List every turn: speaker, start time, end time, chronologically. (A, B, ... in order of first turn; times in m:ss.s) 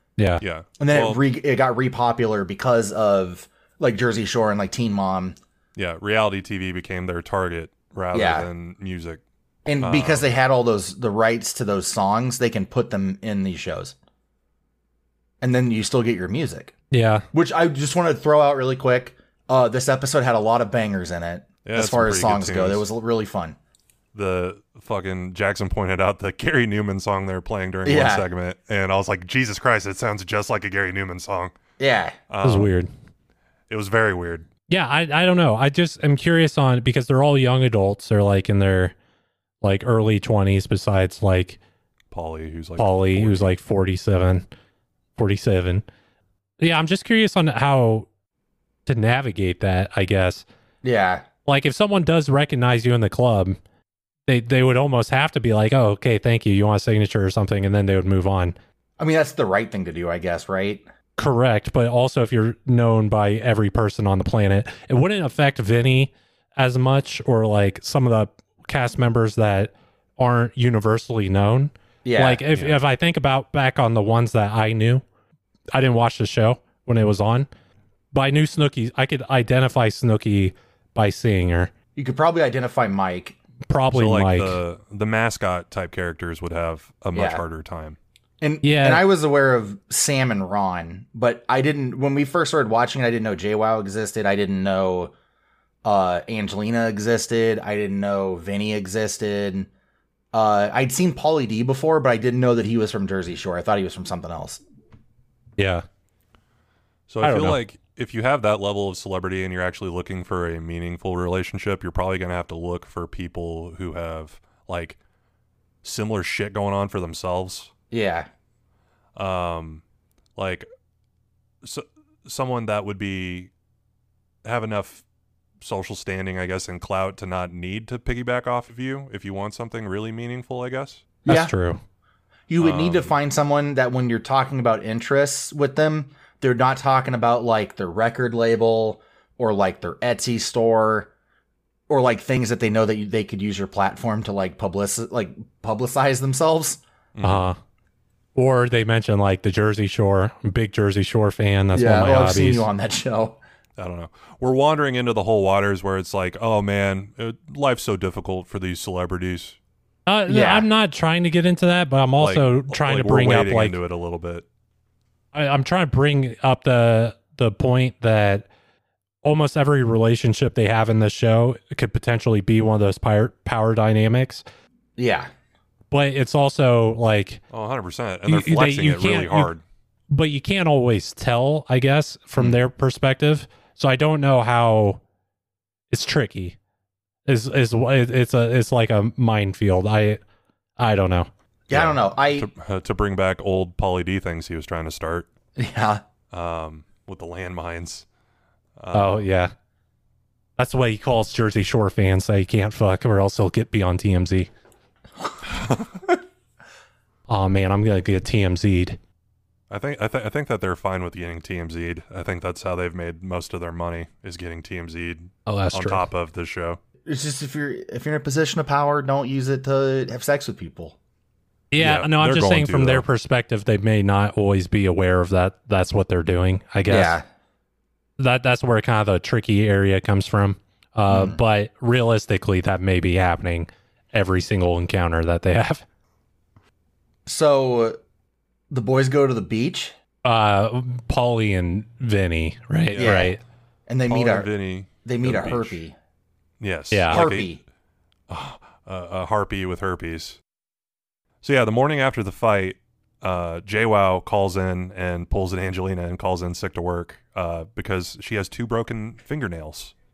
0:00.2-0:00.4 A
0:00.4-0:01.2 B
0:00.8-0:05.4 C
0:05.8-0:09.2 B
0:08.1-0:08.5 C
0:09.6-0:13.9 C
0:09.8-0:10.2 B
0:15.4-0:16.7 C
0:16.9-0:17.2 A
0:17.3-0:23.6 C
0:21.6-0:22.8 B
0:24.1-0:31.6 B
0:27.8-0:28.3 C
0:31.8-0:32.2 C
0:32.3-0:32.7 B
0:32.4-0:32.9 A
0:33.7-0:34.4 B
0:34.7-0:38.9 A
0:39.6-0:41.6 A
0:42.1-0:43.5 B
0:42.8-0:44.4 A
0:45.2-0:45.8 A
0:46.6-0:48.1 A
0:48.8-0:50.4 A
0:50.8-0:51.2 C
0:51.4-0:53.6 A
0:54.3-0:58.5 A
0:59.0-1:00.8 C
1:01.2-1:15.0 A
1:12.0-1:12.4 C
1:15.7-1:17.5 A
1:18.1-1:21.7 A
1:22.0-1:23.4 C
1:23.7-1:24.6 A
1:23.9-1:28.0 B
1:27.1-1:27.4 C
1:28.4-1:35.1 C
1:28.6-1:29.0 A
1:35.8-1:39.7 C
1:40.3-1:44.6 C
1:45.6-1:45.8 A
1:47.1-1:55.0 B
1:47.2-1:47.6 A
1:55.8-1:57.7 B
1:57.9-1:58.3 C
1:59.2-1:59.8 B
2:00.4-2:00.7 B
2:01.6-2:03.5 B
2:04.4-2:05.0 B
2:05.6-2:11.0 B
2:11.2-2:11.5 C
2:11.3-2:11.8 A
2:12.5-2:21.1 C
2:12.6-2:13.1 B
2:21.9-2:26.8 C
2:27.1-2:27.4 B
2:27.2-2:27.6 A
2:28.3-2:32.7 A
2:31.7-2:33.4 C
2:33.8-2:39.6 B
2:40.1-2:43.8 A
2:40.3-2:40.7 C
2:42.2-2:44.4 B
2:45.3-2:48.5 A
2:49.2-2:54.4 A
2:55.0-2:55.3 C
2:55.9-2:57.4 A
2:57.5-2:59.6 B
2:58.3-2:59.5 A
3:00.1-3:05.0 A
3:05.9-3:06.6 A
3:07.3-3:10.2 A
3:10.8-3:11.3 A
3:11.7-3:12.5 C
3:11.8-3:15.3 B
3:15.6-3:16.0 C
3:16.3-3:18.0 B
3:18.8-3:19.2 B
3:18.9-3:19.5 A
3:20.6-3:24.5 A
3:27.3-3:29.0 A
3:29.7-3:36.8 B
3:35.4-3:36.0 A
3:37.0-3:41.0 C
3:41.7-3:47.2 A
3:41.8-3:43.0 B
3:46.9-3:47.2 C
3:48.2-3:55.8 A
3:51.1-3:51.4 C
3:57.2-3:58.0 C
3:58.7-3:59.9 C
4:00.2-4:03.4 A
4:02.9-4:03.2 B
4:03.0-4:03.4 C
4:03.9-4:04.5 C
4:04.1-4:05.8 B
4:05.0-4:06.0 C
4:06.6-4:07.5 B
4:06.9-4:07.2 A
4:07.1-4:07.6 C
4:08.3-4:10.4 B
4:11.4-4:19.9 B